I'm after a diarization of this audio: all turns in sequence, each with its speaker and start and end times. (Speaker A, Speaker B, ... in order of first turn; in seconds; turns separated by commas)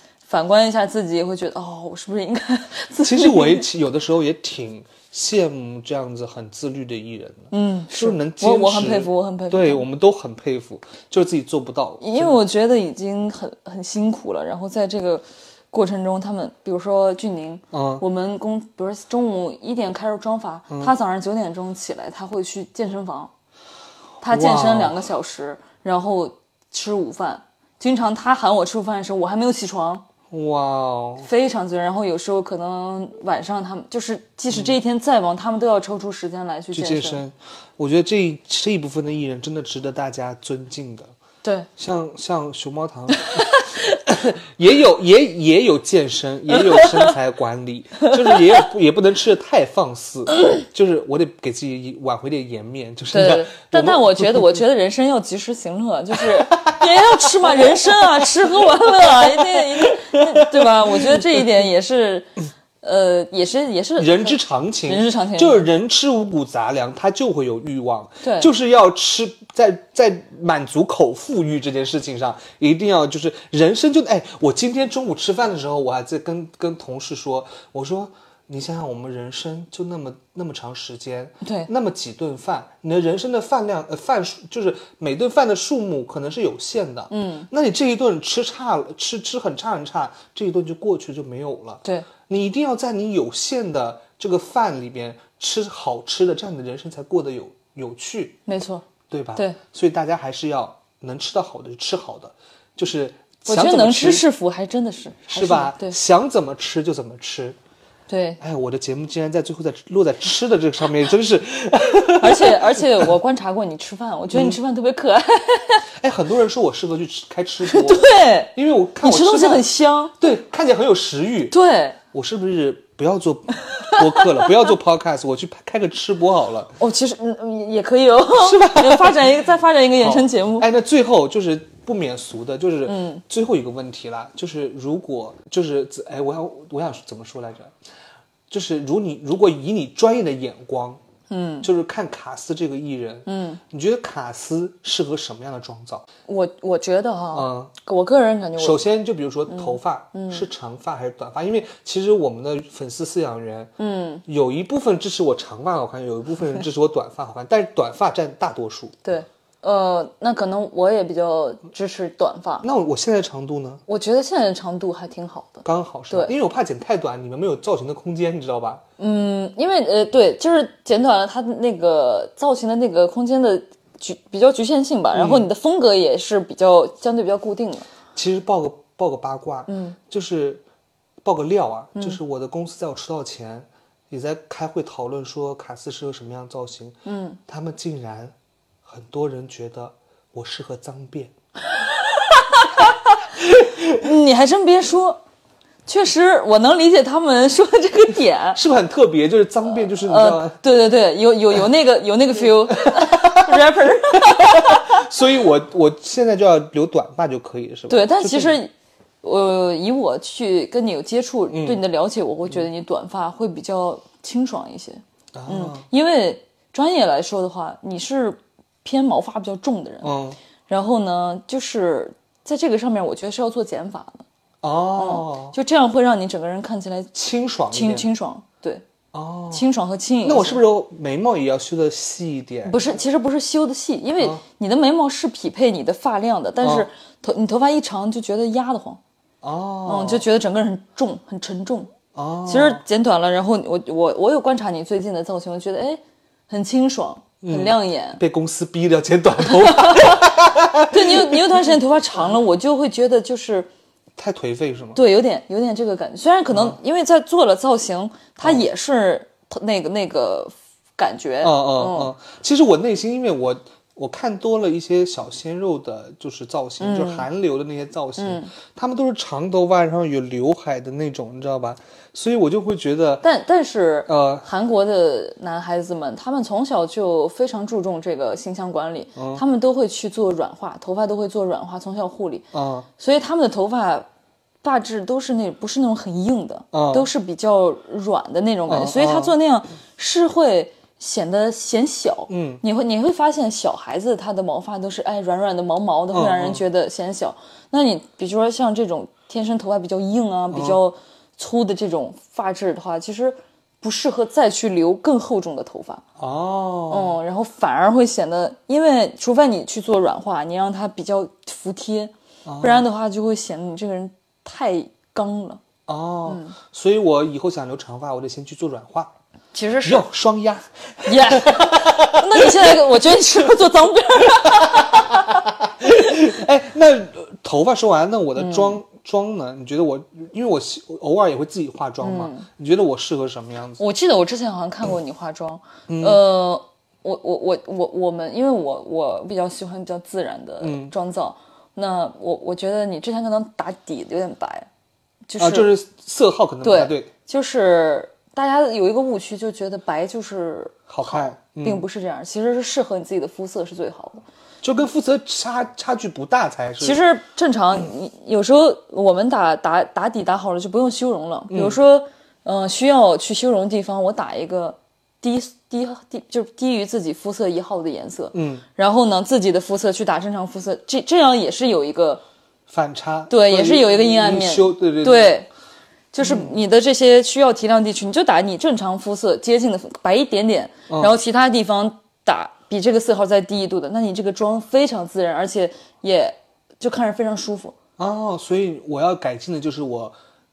Speaker A: 0.3-3.7, Speaker B: 3.0-12.4, Speaker A: 7.5-9.8, Speaker A: 12.0-23.3, Speaker B: 17.7-18.0, Speaker A: 24.2-30.0, Speaker B: 24.3-25.0, Speaker B: 30.3-31.3, Speaker A: 31.2-37.2, Speaker B: 34.5-34.8, Speaker B: 36.7-41.1, Speaker A: 41.4-41.7, Speaker B: 41.8-54.6, Speaker A: 43.2-44.0, Speaker A: 46.6-47.1, Speaker A: 48.0-48.6, Speaker A: 53.1-62.3, Speaker B: 56.1-61.4, Speaker A: 62.8-65.7, Speaker B: 64.0-98.4, Speaker A: 68.2-68.5, Speaker A: 81.4-81.7, Speaker A: 87.1-87.5, Speaker A: 98.5-99.6, Speaker B: 99.1-104.3, Speaker A: 103.5-106.0, Speaker B: 105.3-107.6, Speaker A: 108.1-108.4, Speaker B: 108.4-113.1, Speaker A: 112.2-115.9, Speaker B: 114.3-114.6, Speaker B: 115.9-119.7, Speaker A: 117.7-120.1, Speaker B: 120.2-121.5, Speaker A: 121.5-122.0, Speaker B: 122.1-126.8, Speaker A: 123.7-124.4, Speaker A: 126.8-130.7, Speaker B: 128.4-129.4, Speaker B: 130.0-137.7, Speaker A: 132.9-133.2, Speaker B: 138.5-141.0, Speaker A: 141.3-141.7, Speaker B: 141.6-146.1, Speaker A: 143.3-143.6, Speaker A: 146.3-148.8, Speaker B: 147.3-147.7, Speaker B: 148.6-153.7, Speaker A: 149.5-150.4, Speaker A: 153.8-154.2, Speaker B: 154.3-158.9, Speaker A: 159.0-162.7, Speaker B: 162.6-163.8, Speaker A: 163.9-166.3, Speaker B: 165.7-168.8, Speaker A: 169.0-177.9, Speaker B: 175.1-175.5, Speaker B: 178.2-180.6, Speaker A: 179.7-180.0, Speaker B: 181.2-187.0, Speaker A: 187.1-187.4, Speaker B: 187.5-188.3, Speaker B: 188.8-191.3, Speaker A: 192.0-193.2, Speaker B: 193.4-194.1, Speaker A: 193.9-195.2, Speaker A: 195.9-198.6, Speaker B: 198.6-200.6, Speaker A: 199.8-205.1, Speaker B: 202.8-208.6, Speaker A: 207.9-208.7, Speaker A: 209.2-220.2, Speaker B: 211.5-211.8, Speaker B: 215.3-215.9, Speaker B: 220.0-220.4, Speaker A: 220.7-224.2, Speaker B: 224.6-225.6, Speaker A: 225.0-227.1, Speaker B: 227.1-228.1, Speaker A: 227.7-228.8, Speaker B: 229.1-229.7, Speaker A: 229.5-230.6, Speaker B: 230.2-232.9, Speaker A: 232.6-239.0, Speaker B: 236.6-236.9, Speaker B: 239.4-240.2, Speaker A: 239.9-241.9, Speaker B: 242.2-242.8, Speaker A: 242.4-248.2, Speaker B: 247.4-251.6, Speaker A: 249.4-250.4, Speaker A: 250.9-253.7, Speaker B: 254.2-255.0, Speaker A: 254.9-262.1, Speaker B: 256.5-256.8, Speaker B: 261.4-273.3, Speaker A: 266.8-267.3, Speaker A: 268.2-268.5, Speaker A: 273.2-282.5, Speaker B: 274.1-274.5, Speaker B: 279.2-279.4, Speaker B: 282.5-282.9, Speaker A: 283.0-284.1, Speaker A: 284.6-306.0, Speaker B: 286.7-287.1, Speaker B: 288.7-289.4, Speaker B: 292.3-292.6, Speaker B: 296.1-296.6, Speaker B: 300.5-300.8, Speaker B: 306.2-307.2, Speaker A: 306.9-315.6, Speaker B: 312.4-312.9, Speaker B: 315.9-319.1, Speaker A: 316.3-316.6, Speaker A: 319.5-320.1, Speaker B: 319.8-322.7, Speaker A: 321.1-325.4, Speaker B: 324.4-333.8, Speaker A: 328.4-328.8, Speaker A: 332.0-332.5, Speaker A: 333.8-344.7, Speaker B: 335.9-336.2, Speaker B: 340.6-340.9, Speaker A: 345.3-345.7, Speaker B: 345.4-347.1, Speaker A: 346.6-354.2, Speaker B: 350.9-351.9, Speaker B: 354.6-357.0, Speaker A: 356.8-372.2, Speaker B: 361.5-361.8, Speaker B: 368.3-368.6, Speaker B: 372.7-375.4, Speaker A: 373.3-375.5, Speaker A: 376.1-387.8, Speaker B: 376.2-376.5, Speaker B: 380.9-381.1, Speaker B: 388.0-390.1